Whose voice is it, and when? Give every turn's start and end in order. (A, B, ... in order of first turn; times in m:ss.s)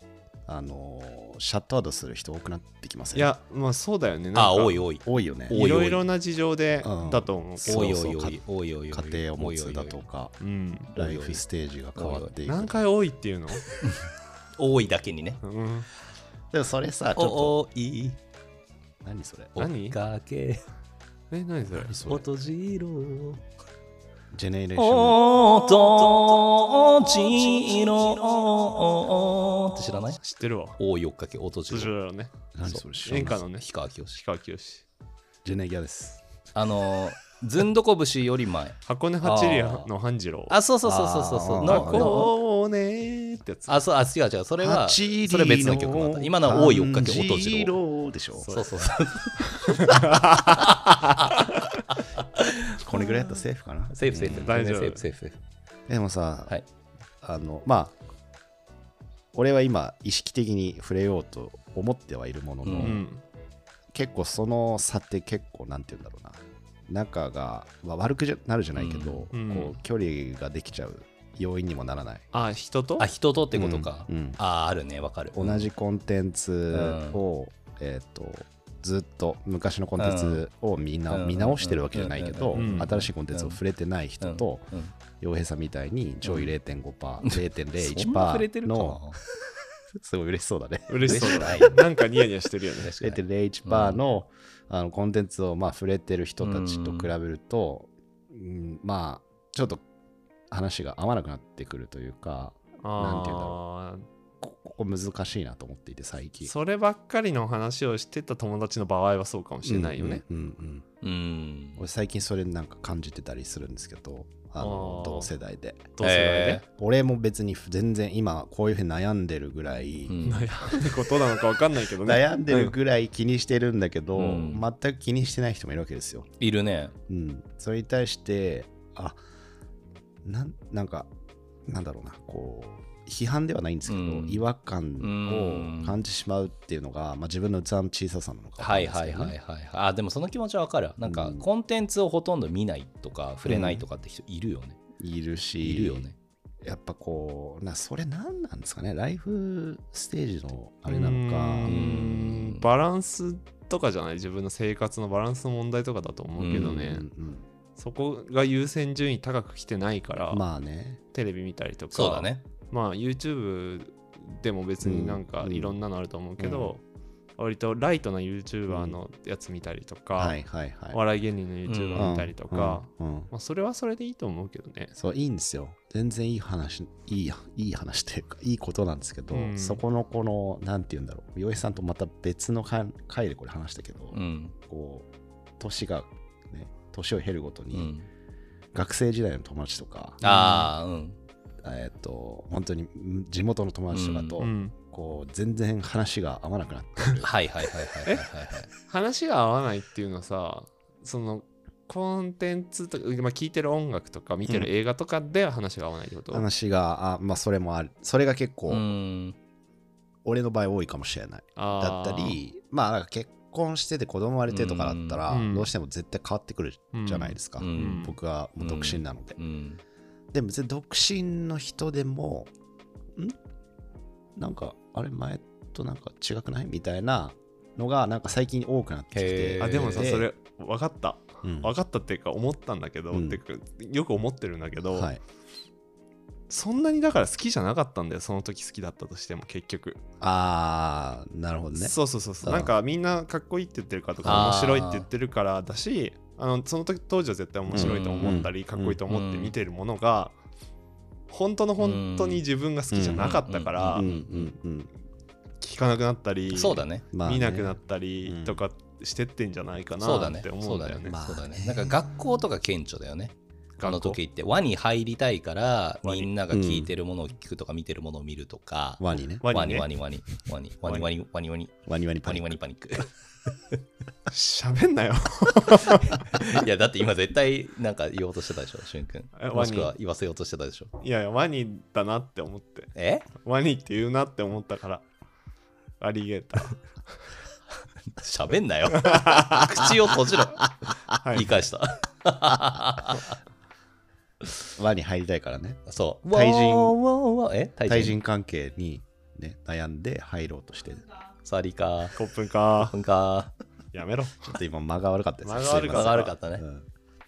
0:00.5-0:03.3 A
0:03.1-0:04.9 B
0:04.3-0:06.0 C
0:05.0-0:05.6 A
0:05.5-0:07.9 B
0:06.8-0:10.3 A
0:07.6-0:10.0 C
0:10.4-0:10.9 B
0:10.9-0:11.4 C
0:10.9-0:12.8 A
0:11.9-0:12.3 C
0:12.4-0:13.6 B
0:13.7-0:14.0 C
0:14.6-0:15.4 C
0:15.4-0:15.9 B
0:16.5-0:17.6 A
0:17.1-0:18.2 C
0:19.0-0:19.6 A
0:19.6-0:20.0 B
0:19.6-0:20.6 C
0:21.3-0:21.9 B
0:21.9-0:22.2 A
0:22.0-0:23.4 C
0:24.3-0:25.2 A
0:24.8-0:30.2 C
0:30.2-0:30.8 B
0:30.8-0:31.9 C
0:31.7-0:32.3 B
0:32.5-0:33.4 A
0:32.7-0:34.2 C
0:33.0-0:34.8 B
0:35.4-0:36.2 A
0:36.5-0:39.9 C
0:38.8-0:40.6 B
0:40.5-0:42.3 C
0:40.8-0:42.2 A
0:41.6-0:43.8 B
0:43.7-0:47.7 C
0:44.6-0:48.5 A
0:48.4-0:48.7 B
0:48.4-0:53.1 C
0:49.4-0:51.6 B
0:52.8-0:54.5 A
0:53.9-0:55.4 C
0:54.4-0:55.1 B
0:55.9-0:56.6 A
0:57.2-0:57.9 A
0:59.3-1:03.0 A
1:02.6-1:03.0 C
1:02.8-1:03.2 B
1:03.9-1:12.2 A
1:08.7-1:09.3 C
1:09.3-1:09.7 B
1:12.3-1:13.1 B
1:13.0-1:15.7 C
1:13.5-1:14.4 A
1:15.4-1:24.7 A
1:16.7-1:17.2 C
1:20.0-1:20.4 C
1:21.1-1:23.6 C
1:22.5-1:22.9 B
1:24.2-1:24.9 C
1:25.2-1:29.0 A
1:26.2-1:26.5 C
1:27.2-1:29.2 C
1:30.0-1:31.8 A
1:30.9-1:32.9 B
1:31.0-1:31.8 C
1:32.8-1:34.0 C
1:33.0-1:39.8 A
1:36.4-1:37.1 C
1:40.5-1:43.6 A
1:42.8-1:44.0 B
1:44.4-1:46.5 A
1:46.4-1:50.2 B
1:49.6-1:50.8 A
1:51.0-1:51.8 C
1:51.8-1:55.9 A
1:54.6-1:55.3 B
1:56.0-1:56.6 B
1:56.0-1:56.6 C
1:56.6-2:00.2 A
2:00.1-2:00.6 C
2:00.2-2:02.7 B
2:02.0-2:06.3 A
2:04.2-2:04.6 C
2:06.4-2:06.9 C
2:07.1-2:09.2 A
2:10.2-2:11.1 A
2:11.7-2:19.3 A
2:13.9-2:14.4 C
2:15.0-2:16.0 C
2:18.6-2:24.8 C
2:21.0-2:21.4 A
2:23.4-2:23.8 A
2:25.0-2:26.1 A
2:25.6-2:26.2 C
2:26.6-2:31.8 A
2:30.9-2:37.0 B
2:31.6-2:32.7 C
2:36.4-2:37.0 C
2:36.5-2:37.4 A
2:37.8-2:40.4 B
2:40.3-2:41.0 A
2:41.1-2:46.8 B
2:41.9-2:42.4 C
2:44.8-2:45.8 A
2:46.4-2:46.7 A
2:47.4-2:50.4 B
2:48.7-2:49.0 A
2:50.2-2:51.0 A
2:50.9-2:54.9 B
2:51.7-2:52.2 C
2:52.0-2:53.3 A
2:55.0-3:05.0 A
2:59.3-2:59.8 B
3:04.1-3:04.5 C
3:05.6-3:07.9 A
3:07.7-3:08.1 C
3:08.7-3:10.2 A
3:10.2-3:11.2 C
3:10.2-3:10.5 B
3:11.6-3:17.3 A
3:13.9-3:14.4 C
3:14.4-3:14.7 B
3:17.2-3:18.7 C
3:18.0-3:26.4 B
3:26.3-3:28.9 A
3:28.7-3:29.4 C
3:30.2-3:39.4 A
3:31.6-3:32.4 B
3:34.5-3:35.2 C
3:35.3-3:35.7 B
3:36.9-3:38.1 B
3:37.6-3:39.8 C
3:40.3-3:42.5 A
3:44.4-3:50.3 A
3:49.1-3:50.2 C
3:49.6-3:55.1 B
3:51.4-3:51.7 A
3:53.1-3:53.4 A
3:54.9-3:55.2 A
3:56.5-4:00.0 B
4:00.2-4:02.7 A
4:01.7-4:10.3 B
4:04.2-4:04.6 A
4:04.2-4:05.1 C
4:07.7-4:09.0 A
4:07.7-4:08.5 C
4:09.1-4:09.5 C
4:11.3-4:14.0 B
4:11.8-4:12.4 C
4:12.9-4:13.3 A
4:13.2-4:14.5 C
4:13.9-4:14.9 A
4:15.6-4:21.1 B
4:16.5-4:17.0 C
4:17.1-4:18.6 A
4:20.0-4:33.8 C
4:21.1-4:22.0 A
4:23.8-4:24.2 B
4:26.0-4:26.3 B
4:26.5-4:26.9 A
4:29.0-4:29.4 A
4:29.4-4:29.9 B
4:31.8-4:32.6 A
4:34.3-4:36.5 B
4:36.1-4:40.9 C
4:39.4-4:39.9 B
4:41.0-4:45.0 B
4:42.9-4:43.3 C
4:46.0-4:46.8 B
4:48.1-4:50.7 C
4:48.9-4:49.7 B
4:51.2-4:51.6 B
4:51.2-4:53.4 C
4:54.8-4:57.0 A
4:55.9-4:58.2 C
4:57.9-5:01.0 A
5:01.4-5:02.2 C
5:02.1-5:02.9 B
5:02.8-5:03.5 C
5:03.9-5:04.5 B
5:04.4-5:06.8 A
5:05.4-5:06.3 B
5:05.9-5:06.6 C